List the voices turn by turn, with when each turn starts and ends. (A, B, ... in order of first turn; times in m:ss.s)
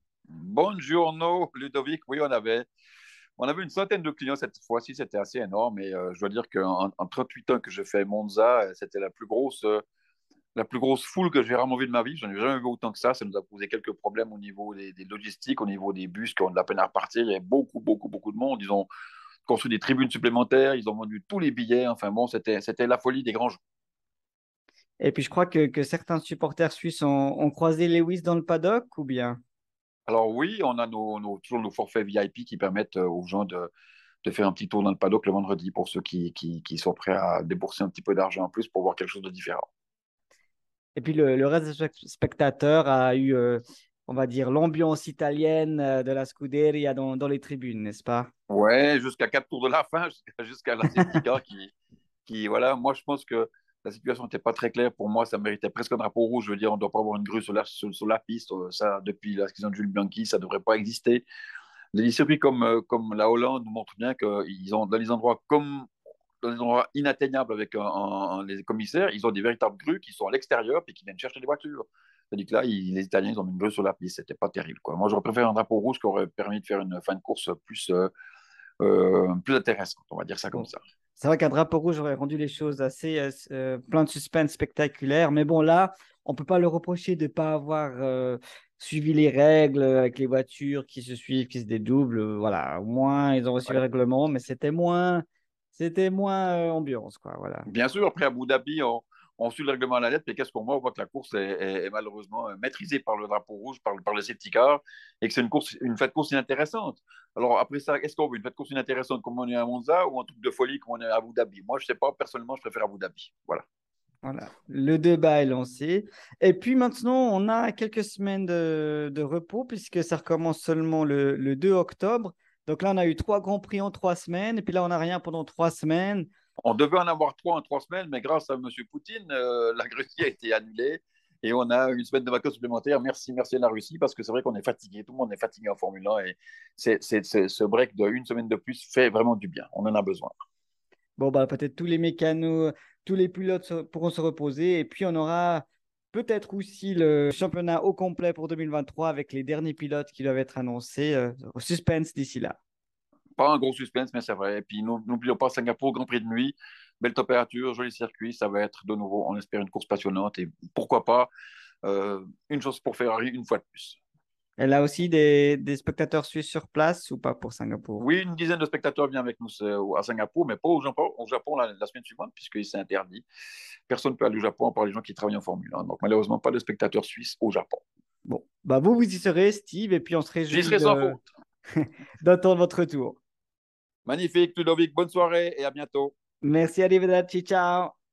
0:00.3-0:02.7 A
0:03.4-0:09.8 A
0:10.5-0:18.9 A
0:19.5-0:23.6 A
0:25.0-0:29.4 B
0:30.1-0:33.7 A
0:34.2-0:39.6 A
0:41.0-0:48.3 B
0:48.5-0:51.7 A
0:52.2-1:01.2 A
1:01.9-1:05.9 A
1:06.4-1:18.1 A
1:18.8-1:20.8 A
1:20.5-1:37.7 B
1:37.7-1:53.6 A
1:54.2-2:06.3 B
2:06.6-2:20.3 A
2:21.2-2:32.6 B
2:33.4-2:41.3 A
2:41.8-2:44.0 A
2:44.6-2:48.0 B
2:48.0-2:53.2 A
2:53.9-2:57.8 A
2:58.3-3:01.2 B
3:00.5-3:01.2 A
3:01.7-3:03.2 B
3:04.0-3:06.1 A
3:06.4-3:07.9 B